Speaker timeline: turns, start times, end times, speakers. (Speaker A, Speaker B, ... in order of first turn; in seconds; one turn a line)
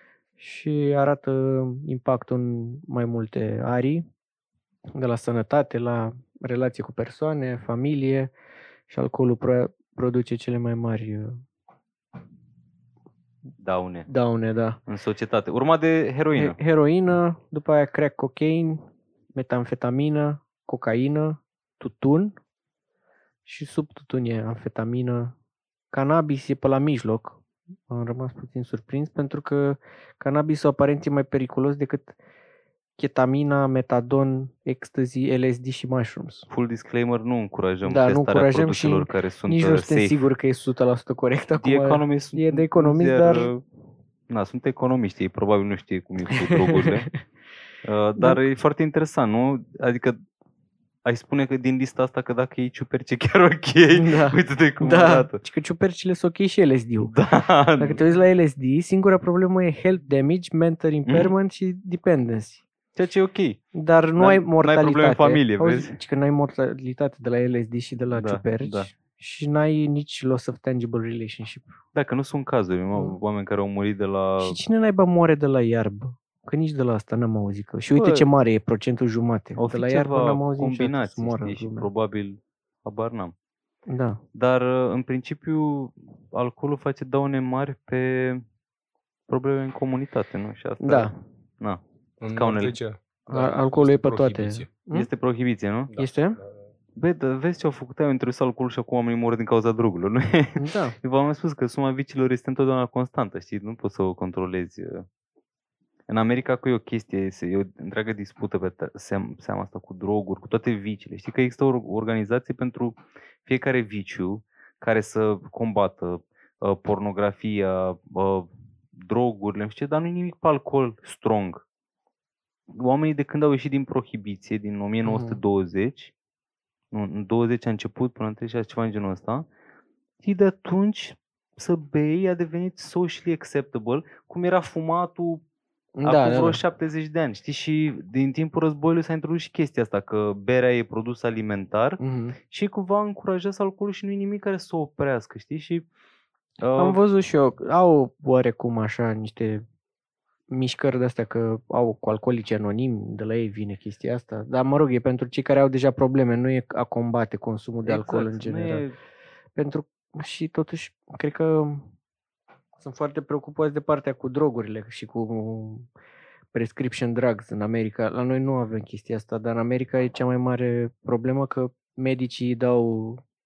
Speaker A: 0.4-4.0
Speaker A: 4.9-8.3
Speaker A: 8.9-11.4
Speaker B: 13.6-14.1
Speaker A: 14.1-14.8
Speaker B: 14.9-16.6
Speaker A: 16.3-18.8
Speaker A: 19.3-22.3
Speaker A: 23.4-25.3
Speaker A: 25.9-32.1
Speaker A: 33.0-36.5
Speaker B: 36.5-40.1
Speaker A: 37.8-43.5
Speaker B: 41.6-43.6
Speaker B: 44.3-47.1
Speaker A: 46.3-47.1
Speaker B: 47.8-50.2
Speaker B: 51.0-55.4
Speaker A: 53.9-57.1
Speaker B: 57.1-58.0
Speaker A: 57.8-62.6
Speaker B: 61.1-61.3
Speaker B: 63.0-63.6
Speaker A: 63.7-71.7
Speaker B: 64.2-66.0
Speaker B: 68.1-68.9
Speaker B: 71.9-74.6
Speaker A: 74.4-81.9
Speaker B: 77.9-78.3
Speaker B: 79.6-83.3
Speaker A: 83.9-84.2
Speaker B: 84.3-88.4
Speaker B: 89.3-92.8
Speaker A: 90.8-91.1
Speaker C: 92.2-94.7
Speaker A: 93.3-95.1
Speaker B: 94.9-95.9
Speaker C: 95.9-96.7
Speaker A: 96.0-96.4
Speaker B: 97.0-105.0
Speaker A: 100.6-100.9
Speaker B: 106.1-121.6
Speaker B: 122.7-126.1
Speaker A: 125.0-125.4
Speaker B: 126.9-129.5
Speaker B: 130.2-135.4
Speaker A: 136.0-136.6
Speaker B: 136.0-145.9
Speaker A: 142.0-142.4
Speaker B: 146.6-147.0
Speaker A: 146.8-149.6
Speaker A: 150.5-158.8
Speaker B: 157.8-158.9
Speaker A: 159.6-161.9
Speaker A: 162.8-165.9
Speaker A: 166.5-173.2